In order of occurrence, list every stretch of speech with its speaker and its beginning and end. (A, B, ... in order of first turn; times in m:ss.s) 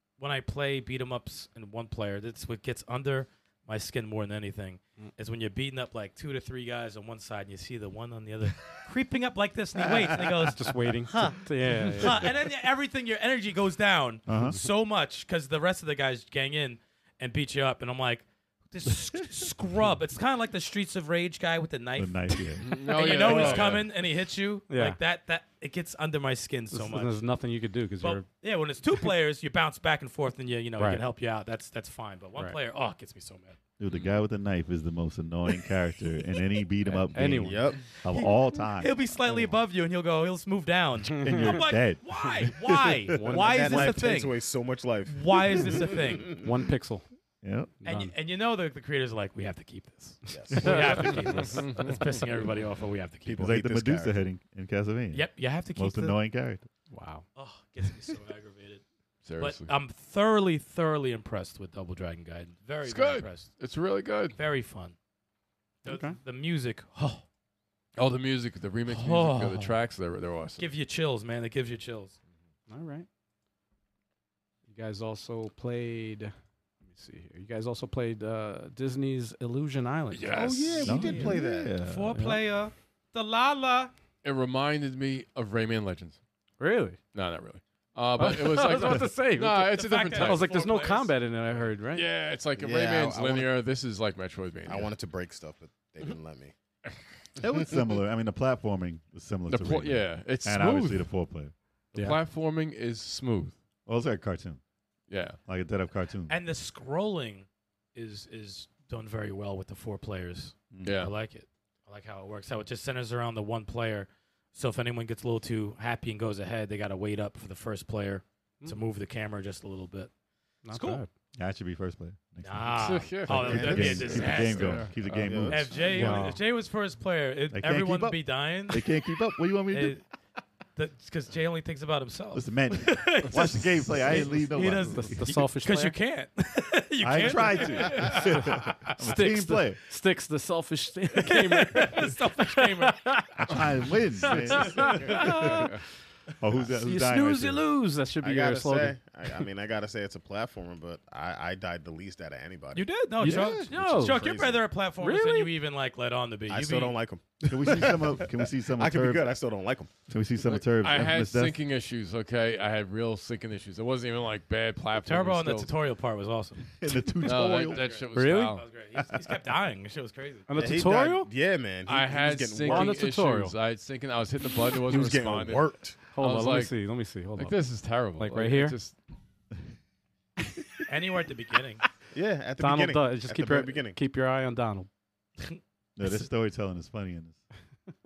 0:00.2-0:27.2 A
0:09.8-0:10.5 B
0:10.4-0:12.3 C
0:14.3-0:14.6 B
0:22.0-0:23.8 B
0:22.6-0:23.9 D
0:24.7-0:25.0 C
0:26.7-0:28.2 C
0:28.0-0:33.6 A
0:30.8-0:31.0 C
0:33.8-0:39.0 B
0:36.9-0:37.7 C
0:37.4-0:37.8 E
0:38.1-0:44.4 A
0:41.2-0:43.3 B
0:41.2-0:41.6 C
0:43.1-0:44.0 C
0:43.3-0:46.5 E
0:45.1-0:46.4 A
0:46.4-0:47.0 C
0:47.4-0:47.8 B
0:47.8-0:53.5 A
0:47.8-0:48.1 C
0:50.3-0:51.2 E
0:50.6-0:51.4 B
0:50.6-0:51.2 C
0:51.4-0:52.1 D
0:53.2-0:54.2 E
0:53.4-0:56.6 B
0:55.1-0:56.2 A
0:56.9-0:57.2 C
0:57.3-0:58.8 A
0:59.2-0:59.7 D
0:59.4-1:03.5 A
1:02.8-1:04.4 D
1:04.3-1:05.0 A
1:05.8-1:07.2 A
1:05.9-1:06.2 C
1:08.0-1:10.7 D
1:08.9-1:09.8 A
1:10.6-1:12.2 A
1:12.7-1:13.1 C
1:14.7-1:20.4 C
1:20.1-1:20.9 D
1:20.3-1:21.8 E
1:20.8-1:23.9 A
1:20.8-1:22.3 B
1:22.1-1:22.4 C
1:24.2-1:26.2 D
1:26.6-1:27.0 C
1:27.1-1:30.5 D
1:28.2-1:32.0 C
1:29.8-1:31.1 A
1:31.9-1:34.9 D
1:32.6-1:33.5 E
1:34.6-1:36.5 E
1:37.4-1:41.5 B
1:37.5-1:37.8 E
1:39.5-1:41.1 D
1:41.9-1:42.2 C
1:41.9-1:43.5 D
1:43.9-1:44.6 B
1:45.1-1:45.4 D
1:45.5-1:46.4 B
1:46.3-2:00.1 A
1:50.8-1:51.1 D
2:00.6-2:01.1 C
2:00.7-2:01.0 A
2:01.4-2:06.2 B
2:02.4-2:05.0 A
2:02.8-2:05.5 D
2:03.3-2:04.6 E
2:05.1-2:06.0 E
2:05.5-2:08.9 A
2:05.9-2:06.4 C
2:07.5-2:10.0 B
2:09.7-2:10.0 A
2:10.8-2:19.0 A
2:12.3-2:15.2 B
2:14.7-2:16.0 C
2:17.0-2:19.8 B
2:18.2-2:23.7 C
2:21.2-2:23.6 A
2:23.5-2:25.7 B
2:24.4-2:25.7 C
2:24.4-2:25.4 A
2:25.5-2:25.8 D
2:26.4-2:27.6 B
2:26.8-2:29.0 C
2:28.2-2:34.6 E
2:32.7-2:37.0 A
2:33.2-2:34.3 C
2:33.4-2:33.6 B
2:35.0-2:35.5 C
2:36.5-2:39.9 E
2:37.5-2:39.3 B
2:40.1-2:41.6 B
2:40.4-2:45.7 D
2:45.0-2:46.8 A
2:46.7-2:47.8 B
2:47.2-2:48.6 D
2:47.6-2:50.5 A
2:48.1-2:48.6 C
2:50.5-2:51.3 C
2:50.5-2:53.0 E
2:51.9-2:56.8 D
2:52.6-2:53.5 C
2:54.9-2:56.0 E
2:56.1-2:57.6 C
2:57.4-2:59.0 D
2:58.2-2:58.8 C
3:00.9-3:01.8 A
3:02.1-3:04.0 E
3:02.6-3:04.9 C
3:06.0-3:07.4 B